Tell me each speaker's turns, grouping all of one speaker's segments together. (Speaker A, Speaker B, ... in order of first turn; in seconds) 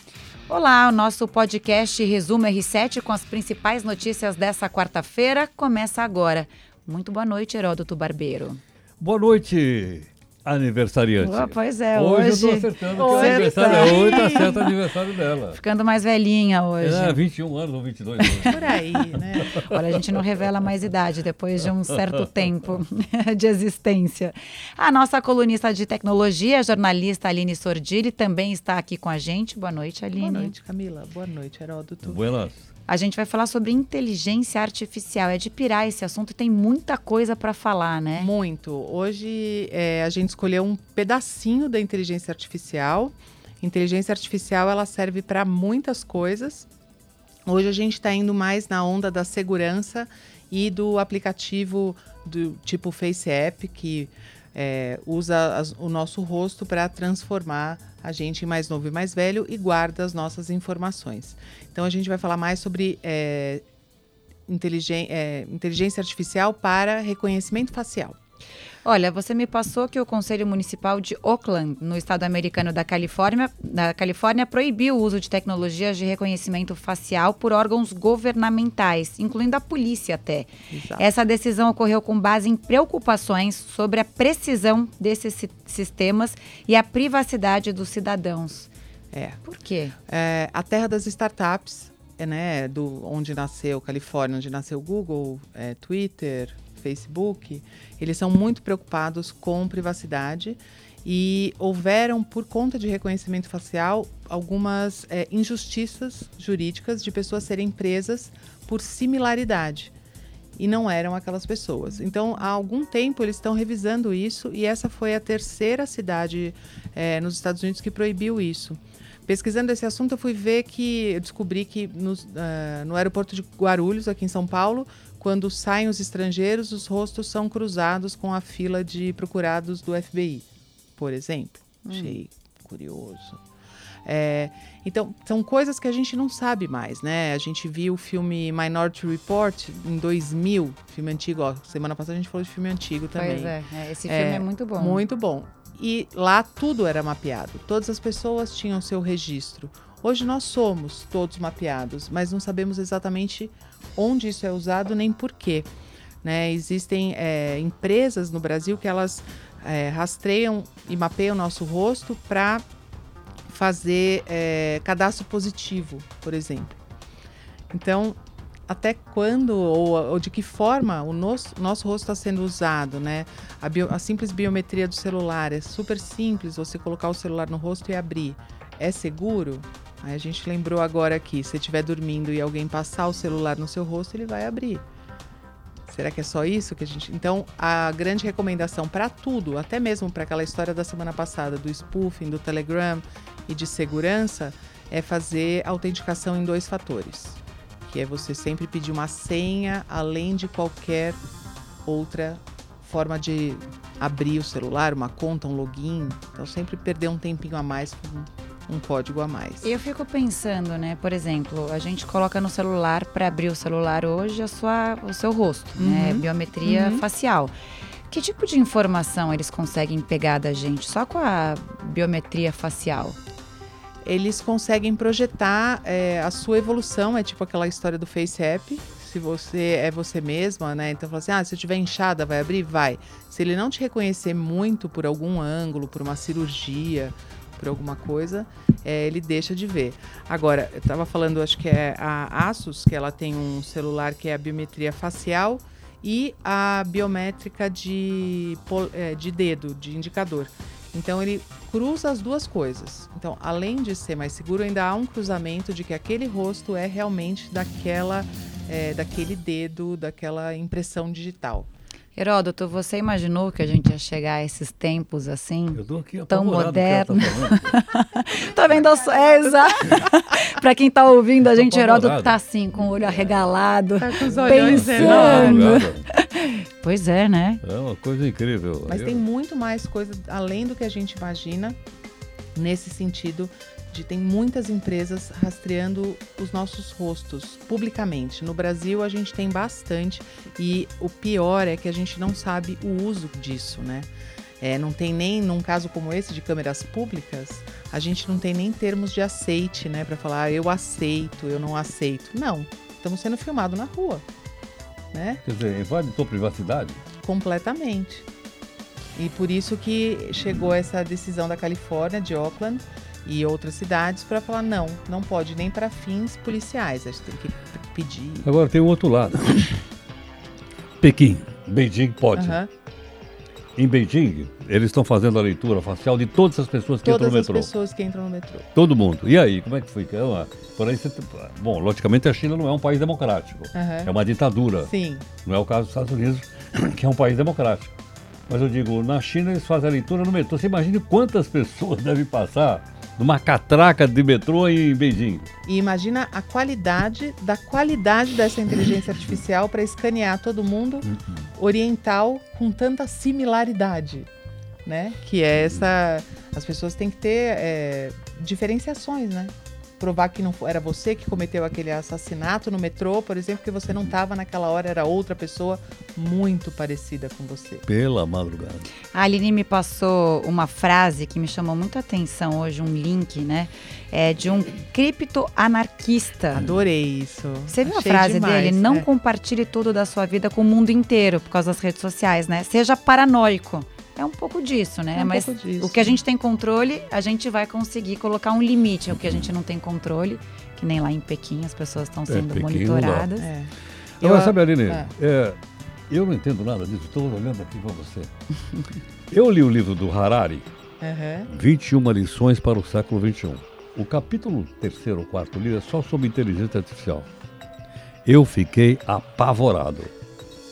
Speaker A: 0.5-8.6, 11.2-14.6, 15.5-17.2, 19.6-30.5, 32.9-38.3, 68.8-88.7, 89.4-90.0, 131.9-132.2, 143.1-145.0, 209.6-217.5, 218.1-223.2, 262.1-277.6, 369.1-376.6, 377.7-393.5
Speaker B: 9.0-15.6, 16.8-18.6, 19.4-19.7, 32.0-32.6, 265.7-267.8, 271.4-272.4, 274.5-276.1, 277.6-279.2, 305.4-307.0, 318.4-319.8, 321.0-322.6, 323.8-327.7, 328.7-334.9, 335.4-337.9, 338.5-345.5, 367.9-368.9, 392.3-393.3, 394.2-395.6, 396.1-398.3, 399.3-400.7, 401.5-407.3, 408.2-410.1
Speaker C: 12.9-14.6, 18.4-19.6, 30.1-32.2, 38.2-46.7, 47.5-63.6, 64.5-68.2, 80.7-81.0, 89.1-89.4, 90.1-109.9, 110.5-133.4, 134.0-143.5, 144.1-155.7, 156.2-162.6, 163.5-166.8, 167.7-184.8, 185.9-201.2, 201.8-209.7, 215.8-217.0, 224.0-261.7, 268.3-270.1, 274.0-275.7, 278.9-281.8, 282.5-304.2, 305.1-305.4, 307.2-308.2, 309.1-318.5, 322.3-322.7, 327.0-328.7, 333.7-334.1, 334.8-335.3, 345.6-354.3, 354.8-367.8, 376.5-379.1, 385.1-386.1, 393.4-395.1, 401.0-401.5